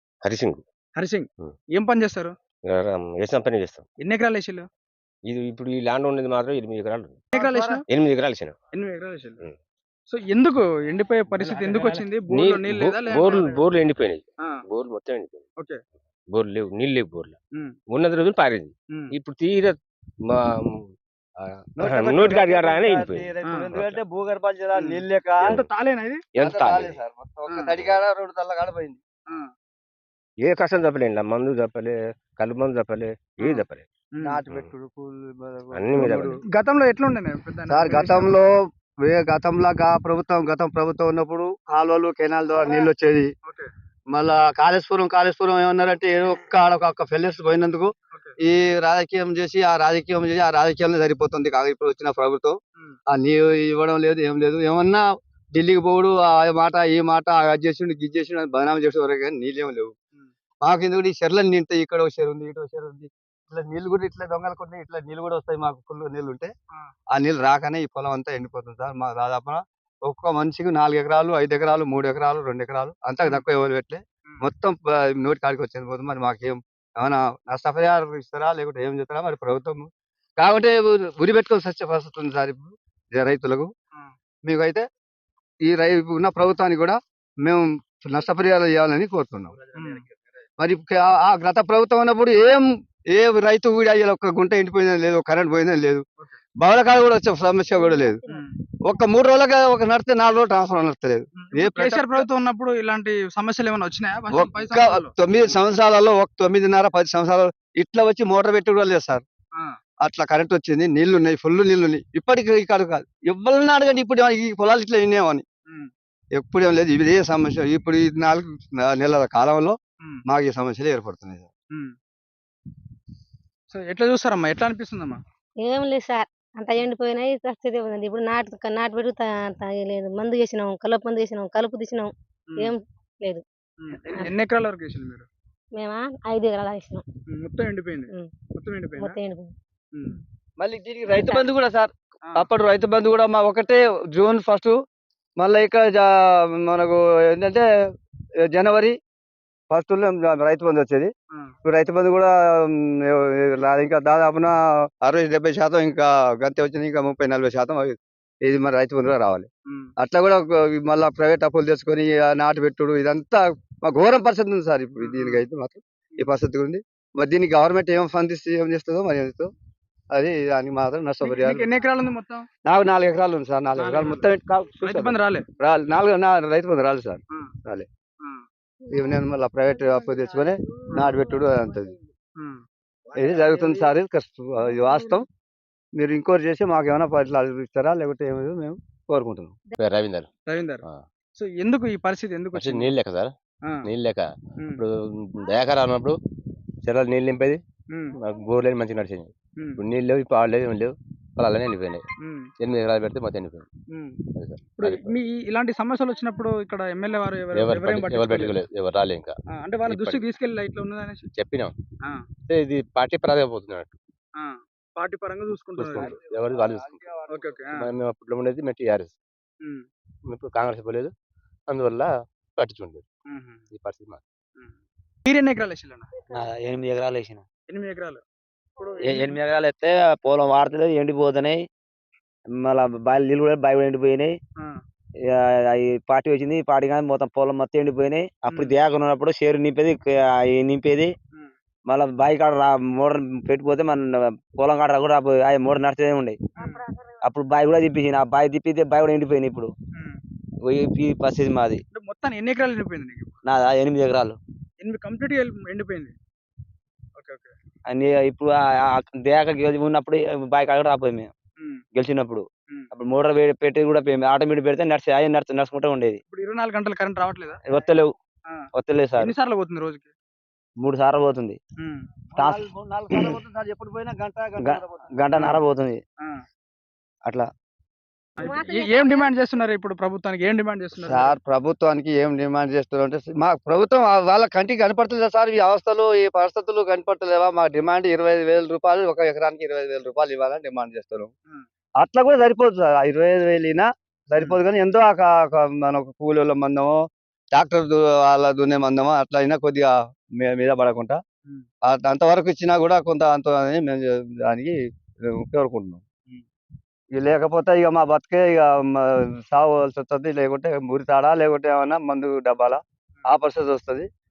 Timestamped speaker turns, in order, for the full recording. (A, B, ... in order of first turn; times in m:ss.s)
0:00.2-0:00.6 A
0:01.0-0:02.3 B
0:02.6-0:03.8 A
0:04.0-0:04.7 B
0:05.2-0:07.2 A
0:07.3-0:07.8 C
0:07.3-0:07.8 B
0:07.9-0:08.5 A
0:08.7-0:09.4 B
0:10.1-0:13.6 B
0:11.3-0:12.1 D
0:12.3-0:15.4 A
0:16.3-0:17.4 A
0:17.9-0:24.0 A
0:21.8-0:25.6 C
0:23.4-0:23.7 B
0:24.7-0:26.2 B
0:26.3-0:27.0 A
0:26.4-0:29.0 C
0:30.4-0:33.8 A
0:33.4-0:34.4 B
0:34.2-0:36.4 C
0:34.5-0:34.7 A
0:35.7-0:36.4 A
0:36.0-0:38.4 B
0:37.7-0:43.3 C
0:44.1-0:59.9 C
0:48.1-0:48.4 B
1:00.6-1:06.5 C
1:07.1-1:23.7 C
1:24.4-1:24.8 C
1:25.6-1:29.6 C
1:29.7-1:30.0 B
1:30.6-1:36.0 C
1:36.6-1:38.2 C
1:37.8-1:38.1 E
1:38.3-1:38.5 B
1:38.8-1:42.2 C
1:41.4-1:45.1 B
1:44.3-1:49.2 C
1:50.0-1:55.4 C
1:56.3-2:01.5 C
2:03.7-2:05.2 B
2:05.6-2:13.4 E
2:13.8-2:15.3 B
2:15.8-2:17.0 E
2:17.3-2:19.2 B
2:19.0-2:19.5 E
2:20.6-2:24.7 C
2:21.1-2:21.4 E
2:25.4-2:27.6 C
2:28.4-2:29.0 C
2:29.7-2:31.1 C
2:31.6-2:49.5 C
2:39.6-2:39.9 B
2:45.0-2:45.4 B
2:50.1-2:51.7 C
2:51.2-2:52.4 B
2:52.6-2:57.9 C
2:53.8-2:54.2 B
2:54.8-2:55.4 B
2:58.9-3:02.0 C
3:02.4-3:02.6 B
3:03.1-3:05.2 C
3:05.9-3:09.6 C
3:09.8-3:10.3 A
3:10.4-3:10.8 B
3:11.3-3:12.9 B
3:12.5-3:13.3 A
3:13.8-3:16.2 A
3:16.8-3:17.6 A
3:17.9-3:18.2 B
3:18.2-3:22.0 A
3:22.2-3:22.5 B
3:22.6-3:23.6 A
3:23.9-3:24.2 B
3:24.4-3:25.1 A
3:24.8-3:28.6 B
3:27.5-3:29.4 A
3:29.5-3:31.2 B
3:29.9-3:30.2 A
3:31.3-3:31.7 A
3:32.5-3:33.9 A
3:34.4-3:36.1 B
3:35.8-3:37.0 A
3:36.0-3:37.6 C
3:37.3-3:37.9 B
3:37.7-3:39.1 A
3:39.6-3:39.8 B
3:40.3-3:41.1 A
3:41.7-3:43.0 A
3:43.3-3:43.6 B
3:43.7-3:44.2 A
3:44.6-3:46.1 B
3:46.3-3:47.4 D
3:47.7-3:48.2 B
3:48.8-3:49.4 B
3:49.0-3:51.6 D
3:52.6-3:54.4 D
3:55.3-4:01.1 D
3:58.5-3:58.8 B
4:01.9-4:06.4 D
4:06.6-4:06.8 B
4:07.2-4:09.7 D
4:09.9-4:10.2 B
4:10.6-4:11.8 D
4:11.9-4:13.4 B
4:13.4-4:14.4 D
4:14.8-4:16.1 B
4:17.2-4:17.5 B
4:17.9-4:21.3 D
4:21.6-4:21.8 B
4:21.9-4:26.2 D
4:26.3-4:27.6 B
4:27.7-4:28.1 D
4:28.7-4:29.3 D
4:29.2-4:30.1 B
4:30.8-4:31.6 D
4:31.8-4:32.0 B
4:32.4-4:35.1 C
4:32.4-4:32.6 D
4:34.6-4:36.0 D
4:35.3-4:35.6 B
4:38.4-4:41.3 B
4:38.4-4:39.3 E
4:41.0-4:51.3 C
4:52.0-4:57.0 C
4:57.5-5:01.2 C
5:01.8-5:04.7 C
5:05.3-5:06.0 C
5:07.1-5:14.1 C